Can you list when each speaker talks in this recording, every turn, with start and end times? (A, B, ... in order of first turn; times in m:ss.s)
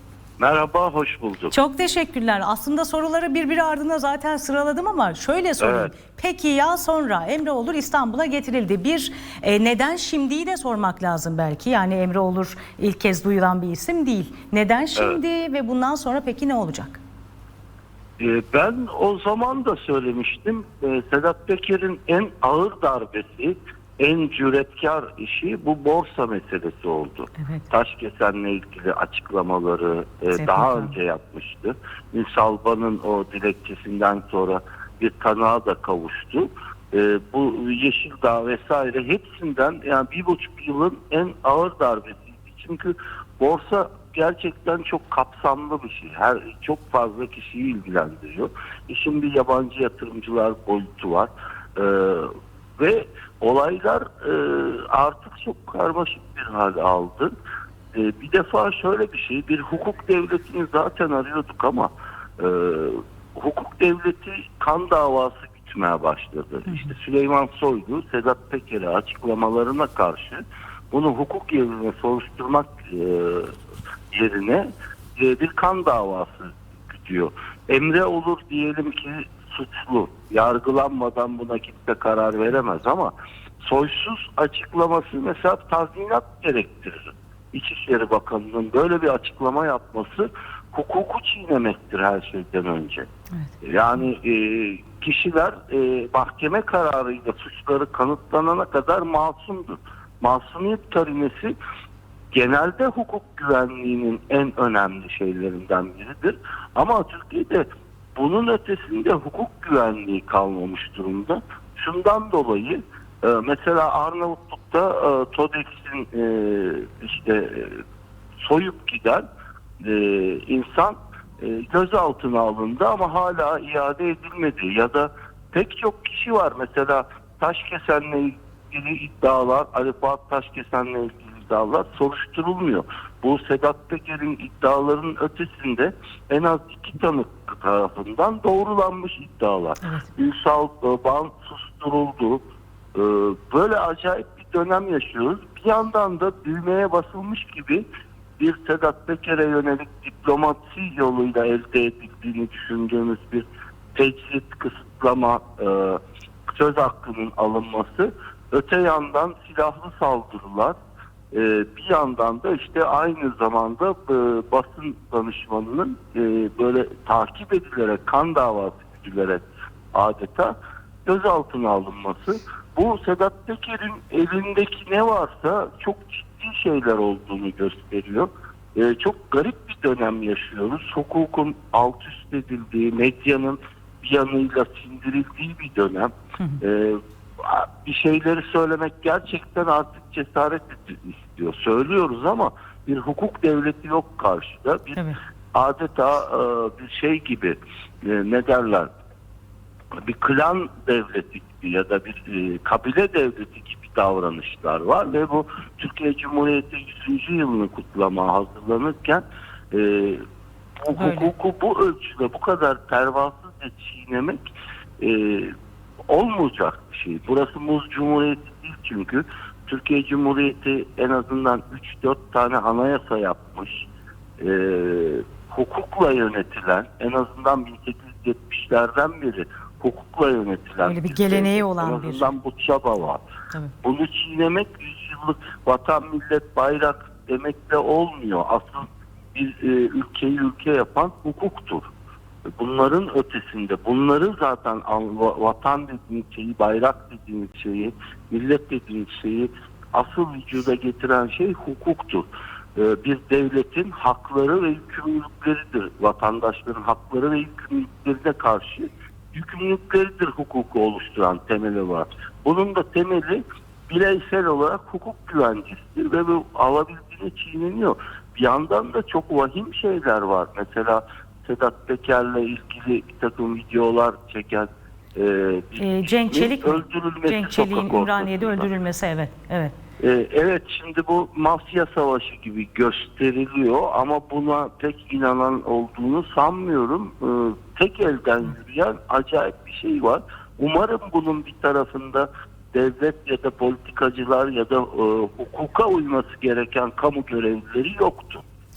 0:00.4-0:01.5 A
0:01.5-0:17.0 B
0:05.6-0:05.9 A
0:18.2-0:57.3 A
0:27.4-0:27.6 B
0:30.3-0:30.9 B
0:57.9-1:13.5 A
1:06.7-1:06.9 B
1:14.1-1:33.1 A
1:33.6-1:41.5 A
1:42.3-1:57.8 A
1:58.4-1:59.2 A
1:59.8-2:22.4 A
2:19.8-2:20.1 B
2:22.9-2:27.8 A
2:28.4-2:40.8 A
2:41.3-2:50.5 A
2:51.0-3:18.9 A
3:20.0-3:30.2 A
3:30.8-3:34.4 A
3:30.9-3:31.3 B
3:35.0-3:35.5 A
3:36.1-3:43.9 A
3:44.4-3:53.2 A
3:50.8-3:52.3 B
3:53.8-4:01.9 A
4:02.6-4:38.7 A
4:35.8-4:39.7 B
4:40.0-4:58.4 A